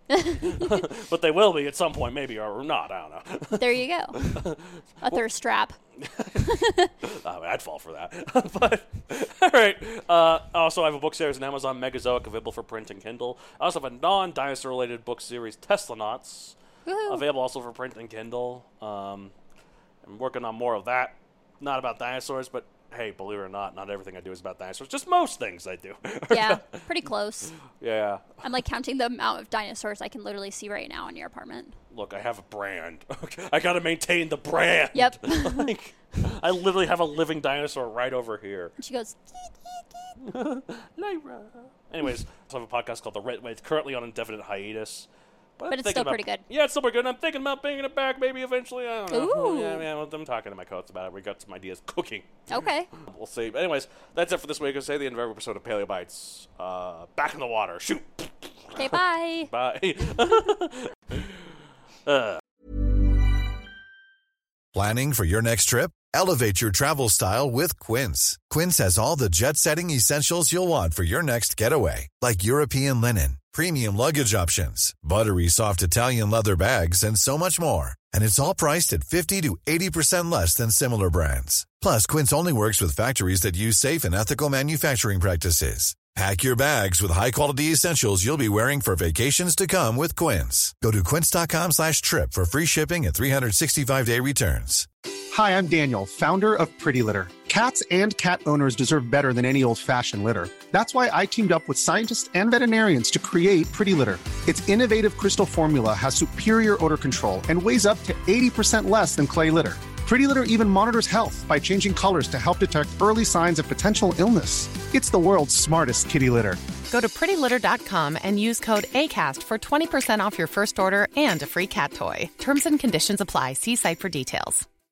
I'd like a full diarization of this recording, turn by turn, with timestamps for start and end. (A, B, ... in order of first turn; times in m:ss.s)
0:00.1-0:00.8 A
0:00.3-0:05.2 B
0:03.6-0:04.2 A
0:05.0-0:05.8 A
0:06.0-0:06.5 B
0:06.4-0:06.9 A
0:07.0-0:16.6 B
0:16.9-0:17.2 A
0:17.1-0:19.3 B
0:20.0-0:28.4 B
0:26.3-0:27.6 A
0:28.4-0:31.8 A
0:31.9-0:38.7 B
0:34.9-0:35.7 A
0:38.8-0:40.2 A
0:40.2-0:45.1 B
0:45.6-0:52.4 B
0:45.7-0:46.4 A
0:49.1-0:49.8 A
0:52.5-0:52.9 A
0:53.0-1:01.4 B
0:58.8-0:59.5 A
1:02.1-1:02.4 B
1:04.7-1:34.9 C
1:35.3-1:56.6 D
1:56.9-2:04.6 E